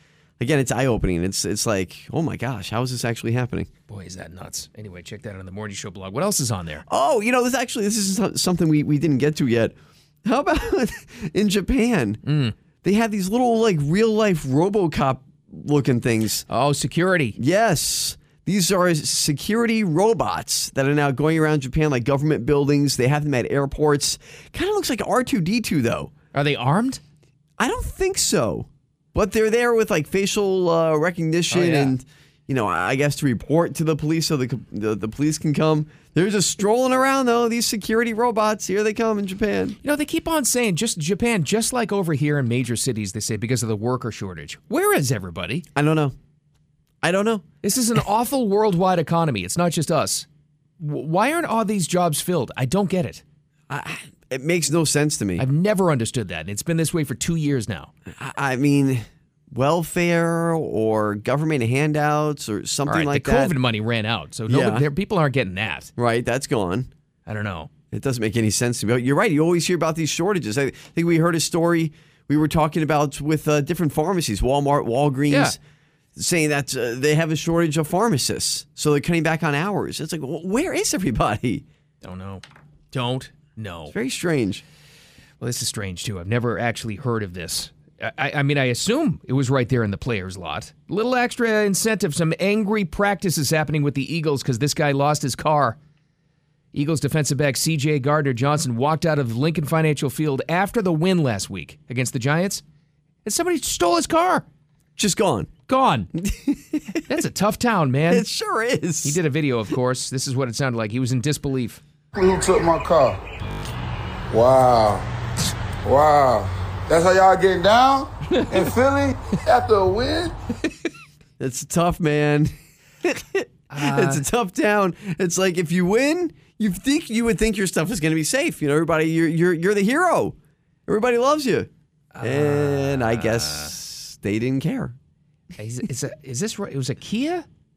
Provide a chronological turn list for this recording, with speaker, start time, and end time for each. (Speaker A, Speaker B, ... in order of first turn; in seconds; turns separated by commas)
Speaker A: 0.4-3.7, Speaker B: 3.9-6.8, Speaker A: 6.9-12.2, Speaker B: 12.2-12.6, Speaker A: 12.8-16.4, Speaker B: 16.5-17.4, Speaker A: 17.4-26.1, Speaker B: 26.3-27.0, Speaker A: 27.6-39.8, Speaker B: 31.5-31.9, Speaker B: 39.8-45.7, Speaker A: 45.8-46.1, Speaker A: 47.0-47.5, Speaker B: 47.6-50.3, Speaker B: 50.8-53.2, Speaker A: 53.7-55.5, Speaker B: 55.4-57.9, Speaker A: 58.1-63.6, Speaker B: 62.9-65.9, Speaker A: 64.5-64.9, Speaker A: 66.0-66.9, Speaker B: 67.3-67.7, Speaker A: 67.9-75.6, Speaker B: 75.3-75.5, Speaker A: 76.2-81.7, Speaker B: 82.0-84.0, Speaker A: 83.9-84.6, Speaker B: 85.4-95.8, Speaker B: 96.7-102.6, Speaker B: 103.2-104.5, Speaker A: 105.0-105.5, Speaker B: 105.7-106.1, Speaker A: 106.2-107.2, Speaker B: 107.1-108.3, Speaker A: 108.1-109.2, Speaker B: 109.0-111.8, Speaker C: 112.2-113.2, Speaker C: 114.3-115.1, Speaker C: 115.8-120.3, Speaker A: 121.4-122.5, Speaker A: 123.0-130.4, Speaker B: 123.7-124.2, Speaker A: 130.9-131.7, Speaker B: 132.1-133.7, Speaker A: 132.2-134.9, Speaker B: 135.6-137.5